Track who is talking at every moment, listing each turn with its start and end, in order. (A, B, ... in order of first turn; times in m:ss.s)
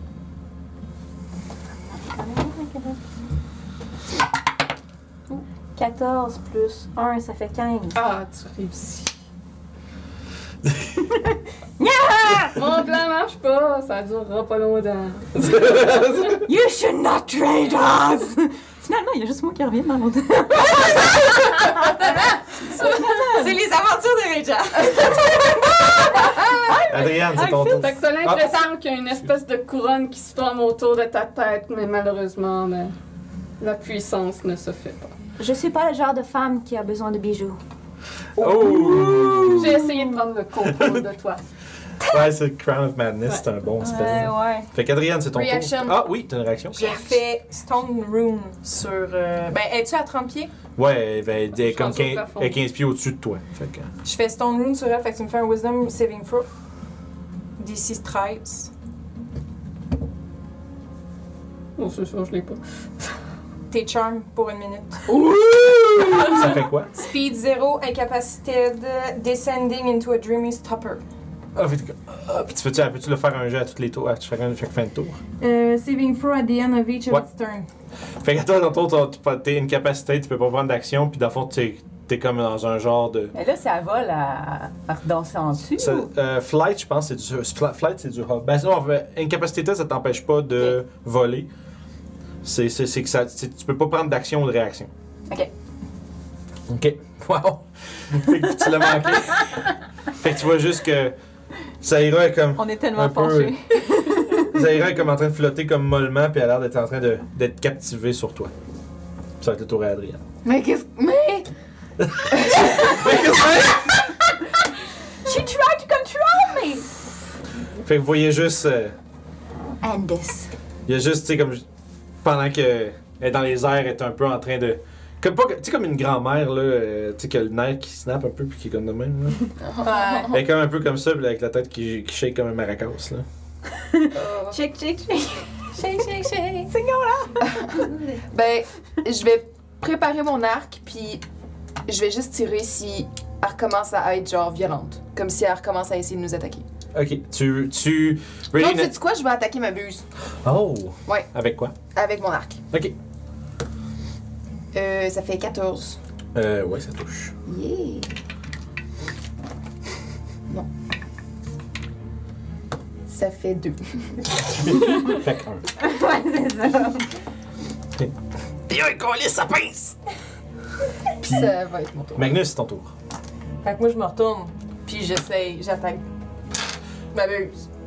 0:01.9-0:03.0 A
0:05.3-0:08.0 A
0:07.9-0:09.1 B
0:11.8-0:12.6 A
0:12.5-0:15.8 B
0:15.4-0:16.4 C
0:16.3-0:23.6 A
0:22.7-0:23.4 B
0:23.3-0:25.0 D
0:24.8-0:25.4 A
0:26.0-0:28.0 A
0:26.9-0:28.6 C
0:27.7-0:32.9 B
0:33.6-0:35.1 B
0:35.4-0:37.6 A
0:38.4-0:39.8 C
0:38.4-0:40.2 A
0:39.5-0:41.4 B
0:40.7-0:41.0 C
0:42.1-0:47.0 C
0:43.8-0:44.7 A
0:45.4-0:45.9 D
0:46.7-0:50.5 D
0:50.8-0:53.9 C
0:51.5-0:52.6 B
0:54.0-0:56.4 D
0:57.6-0:58.7 D
1:01.8-1:02.6 B
1:03.7-1:05.1 D
1:05.9-1:07.0 C
1:06.1-1:11.0 D
1:11.6-1:15.2 C
1:15.4-1:17.7 D
1:18.2-1:23.3 C
1:23.3-1:26.1 A
1:25.8-1:31.5 C
1:32.4-1:34.9 C
1:36.7-1:41.1 C
1:41.8-1:43.6 C
1:42.6-1:44.5 A
1:44.5-1:48.5 C
1:49.4-1:50.2 C
1:50.4-1:51.5 E
1:52.0-1:54.1 C
1:55.2-1:56.9 A
1:57.8-1:58.9 C
1:59.8-2:00.5 A
2:00.9-2:01.6 C
2:02.2-2:09.5 C
2:09.7-2:10.4 E
2:09.8-2:10.3 D
2:10.3-2:13.2 C
2:13.8-2:16.0 A
2:14.1-2:14.6 E
2:15.9-2:16.6 D
2:15.9-2:16.3 E
2:16.7-2:17.8 A
2:17.5-2:21.2 E
2:21.8-2:26.6 E
2:26.9-2:28.9 C
2:28.5-2:30.0 E
2:30.4-2:31.7 C
2:31.9-2:32.6 E
2:34.7-2:36.0 E
2:36.3-2:37.3 C
2:37.5-2:38.1 E
2:43.1-2:44.3 E
2:44.5-2:45.6 C
2:45.8-2:47.1 A
2:48.7-2:49.9 C
2:51.2-2:52.3 E
2:51.2-2:51.5 C
2:52.1-2:52.9 C
2:53.6-2:56.0 D
2:57.1-2:57.6 D